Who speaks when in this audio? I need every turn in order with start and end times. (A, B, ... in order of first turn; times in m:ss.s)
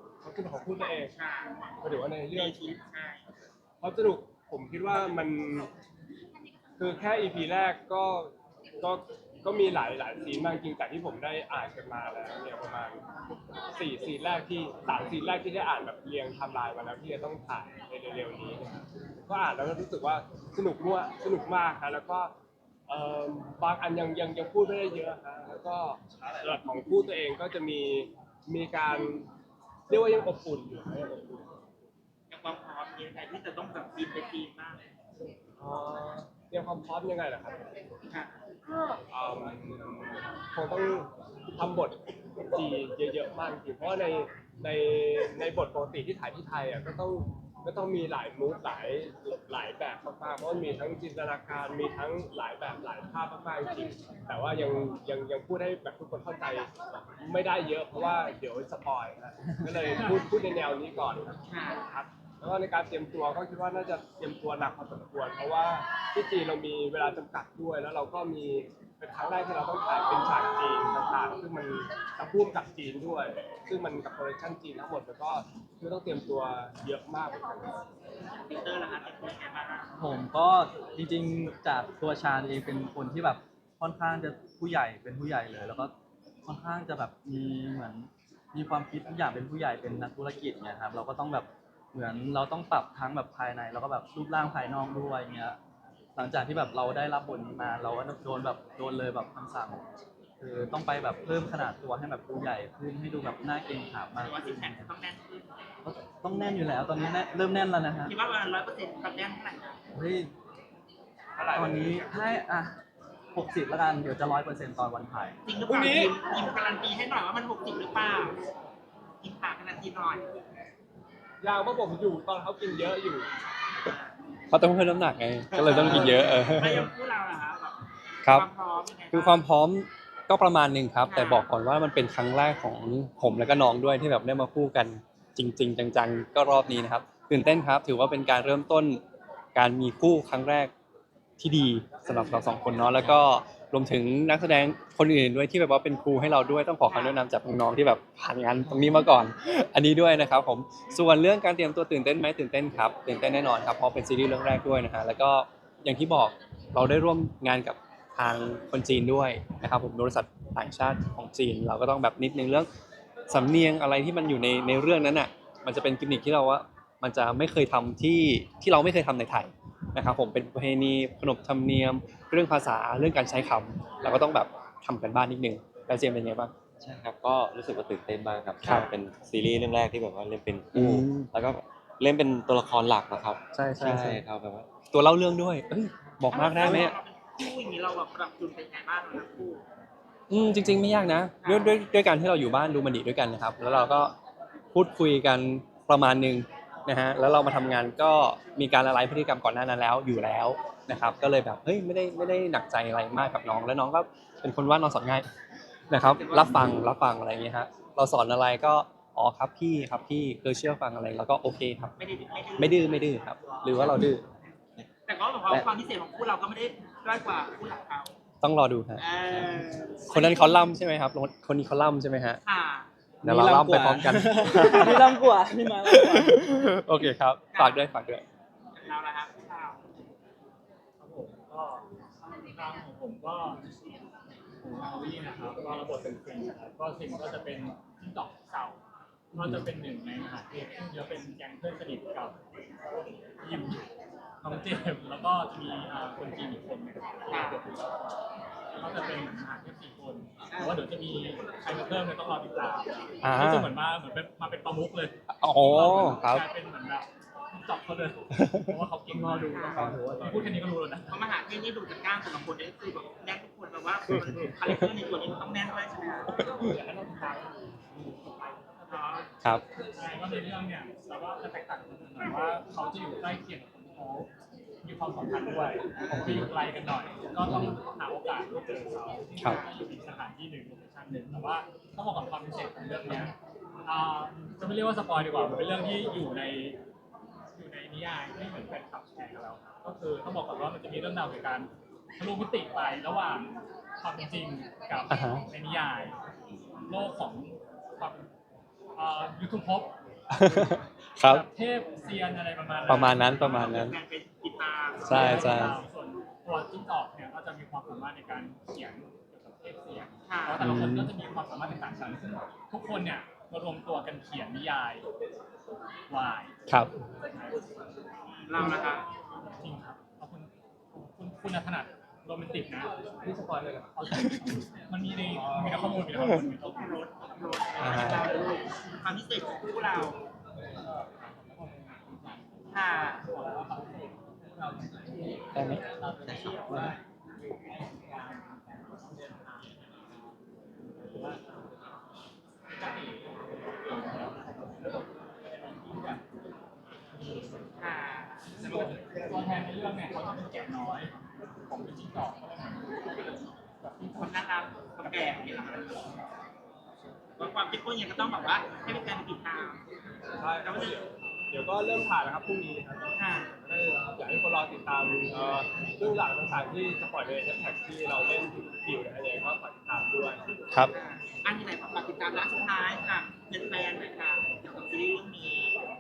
0:00.2-0:01.1 A
0:01.2-0:01.6 B
0:01.8-0:02.8 A
0:02.3-0:03.2 B
0:03.8-0:05.7 A
0:06.8-0:13.0 A
0:13.7-0:22.3 A
0:22.9-0:29.3 A
0:29.9-0:31.5 A
0:32.3-0:34.8 B
0:35.6-0:37.7 A
0:39.1-0:42.0 A
0:42.5-1:17.7 A
1:01.5-1:01.8 B
1:18.5-1:19.9 B
1:20.0-1:25.9 C
1:26.4-1:35.6 C
1:36.2-1:39.8 C
1:40.4-1:44.8 C
1:44.2-1:45.6 B
1:45.8-1:48.1 C
1:46.9-1:47.4 B
1:48.0-1:49.8 B
1:49.9-1:50.3 C
1:51.4-1:52.1 A
1:51.5-1:52.8 C
1:53.3-1:55.4 C
1:55.5-1:58.4 B
1:55.6-1:56.2 A
1:59.2-2:00.2 B
2:01.4-2:03.3 A
2:04.5-2:06.9 D
2:05.6-2:09.4 B
2:05.8-2:06.3 A
2:09.1-2:19.0 D
2:11.1-2:11.5 B
2:19.6-2:20.7 D
2:21.4-2:42.7 D
2:22.1-2:22.4 B
2:26.9-2:27.2 B
2:43.3-2:56.5 D
2:56.8-3:04.7 E
2:58.6-2:58.9 D
3:00.7-3:01.3 D
3:03.5-3:04.2 D
3:04.9-3:06.9 D
3:06.3-3:09.6 B
3:10.3-3:14.2 D
3:11.4-3:11.8 B
3:14.7-3:25.3 D
3:25.9-3:31.9 D
3:26.1-3:26.7 B
3:32.0-3:33.9 B
3:32.6-3:34.2 D
3:35.1-3:38.2 B
3:38.4-3:39.0 D
3:39.0-3:40.6 B
3:40.1-3:42.4 D
3:42.4-3:42.9 B
3:43.2-3:46.7 C
3:43.2-3:45.1 D
3:45.9-3:48.2 D
3:47.5-3:47.9 B
3:48.8-3:49.9 B
3:51.0-3:51.9 F
3:52.4-3:53.6 F
3:54.6-3:58.8 F
3:59.3-4:02.4 F
3:59.4-3:59.6 D
4:03.4-4:03.8 F
4:04.4-4:08.2 F
4:07.3-4:07.6 B
4:08.8-4:21.2 F
4:10.5-4:10.8 B
4:13.2-4:13.7 D
4:15.4-4:16.4 D
4:18.3-4:18.7 D
4:19.1-4:20.6 C
4:19.5-4:19.9 B
4:19.8-4:20.3 D
4:21.1-4:26.3 B
4:26.4-4:28.9 A
4:28.9-4:29.3 B
4:30.0-4:34.3 F
4:34.8-4:43.3 F
4:36.1-4:36.5 D
4:37.5-4:37.8 D
4:43.8-4:46.8 F
4:47.6-4:56.2 F
4:55.1-4:55.4 D
4:56.8-4:58.3 F
4:59.0-4:59.9 F
5:00.3-5:01.4 D
5:01.2-5:03.8 F
5:02.9-5:04.0 D
5:03.3-5:05.8 B
5:05.0-5:05.8 D
5:05.1-5:15.1 F
5:10.3-5:10.6 B
5:10.6-5:11.1 D
5:16.1-5:16.6 F
5:17.3-5:17.6 F
5:18.5-5:19.0 B
5:19.6-5:22.9 F
5:23.2-5:23.9 A
5:23.9-5:27.1 F
5:25.3-5:26.1 A
5:26.6-5:30.2 B
5:27.8-5:28.3 D
5:31.1-5:37.0 F
5:32.7-5:33.2 B
5:35.6-5:35.8 D
5:37.7-5:40.3 F
5:41.0-5:41.9 F
5:42.7-5:46.2 F
5:47.1-5:47.7 F
5:47.8-5:48.9 B
5:48.5-5:54.4 F
5:54.2-5:55.8 B
5:54.9-5:56.1 F
5:57.4-5:59.8 B
6:00.4-6:03.1 A
6:00.6-6:01.0 B
6:03.2-6:03.5 B
6:03.6-6:10.4 A
6:10.9-6:15.8 B